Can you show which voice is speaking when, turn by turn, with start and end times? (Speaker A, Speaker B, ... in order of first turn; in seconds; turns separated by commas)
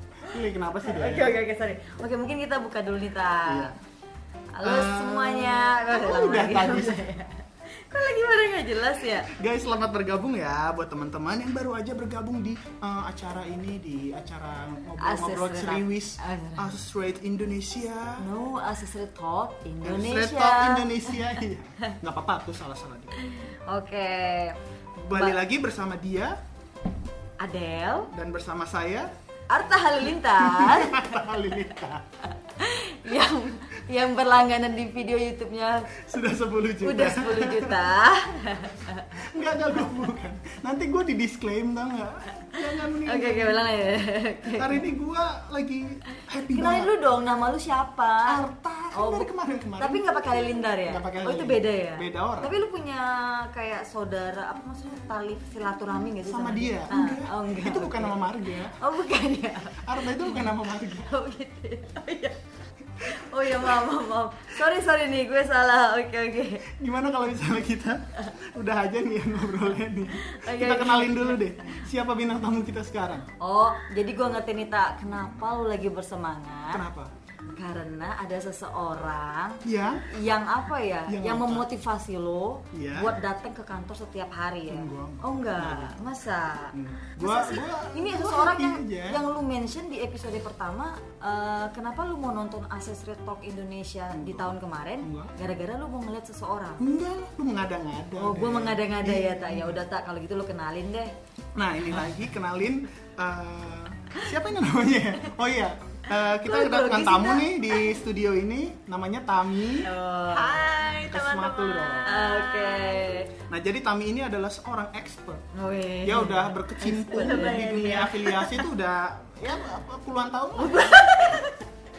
Speaker A: 0.3-1.4, Speaker B: 0.8-3.7, Speaker A: 3.5-3.7, Speaker B: 4.5-9.3, Speaker A: 4.6-7.1, Speaker A: 9.3-18.2, Speaker B: 15.0-16.7, Speaker B: 18.2-21.9, Speaker A: 19.8-23.1, Speaker B: 23.2-24.6, Speaker A: 25.0-26.4, Speaker B: 25.1-25.4, Speaker B: 27.4-28.1, Speaker A: 28.1-29.1, Speaker B: 29.5-31.2, Speaker A: 30.2-32.0, Speaker B: 32.6-35.9, Speaker A: 36.0-37.9, Speaker B: 36.8-39.1, Speaker A: 39.1-43.6, Speaker B: 43.0-44.8, Speaker A: 44.5-46.9, Speaker B: 46.5-48.4, Speaker A: 48.3-52.5, Speaker B: 48.9-49.3, Speaker B: 49.8-62.4, Speaker A: 56.2-58.8, Speaker A: 59.8-61.1, Speaker B: 63.0-66.7, Speaker A: 63.4-63.8, Speaker A: 66.7-73.2, Speaker B: 70.1-71.8, Speaker B: 73.4-76.8, Speaker A: 76.7-77.1, Speaker B: 77.5-96.8, Speaker A: 79.6-80.0, Speaker A: 81.1-81.7, Speaker A: 82.7-83.1, Speaker A: 84.7-86.0, Speaker A: 86.7-89.2, Speaker A: 94.1-95.3, Speaker A: 96.8-99.8, Speaker B: 98.2-101.1, Speaker A: 101.5-109.9, Speaker B: 106.4-107.7, Speaker C: 109.8-113.2, Speaker B: 109.9-110.7, Speaker A: 111.0-112.1, Speaker B: 112.0-113.3, Speaker A: 113.4-115.4, Speaker B: 115.5-117.7, Speaker A: 116.0-121.1, Speaker C: 117.1-118.6, Speaker B: 120.6-121.6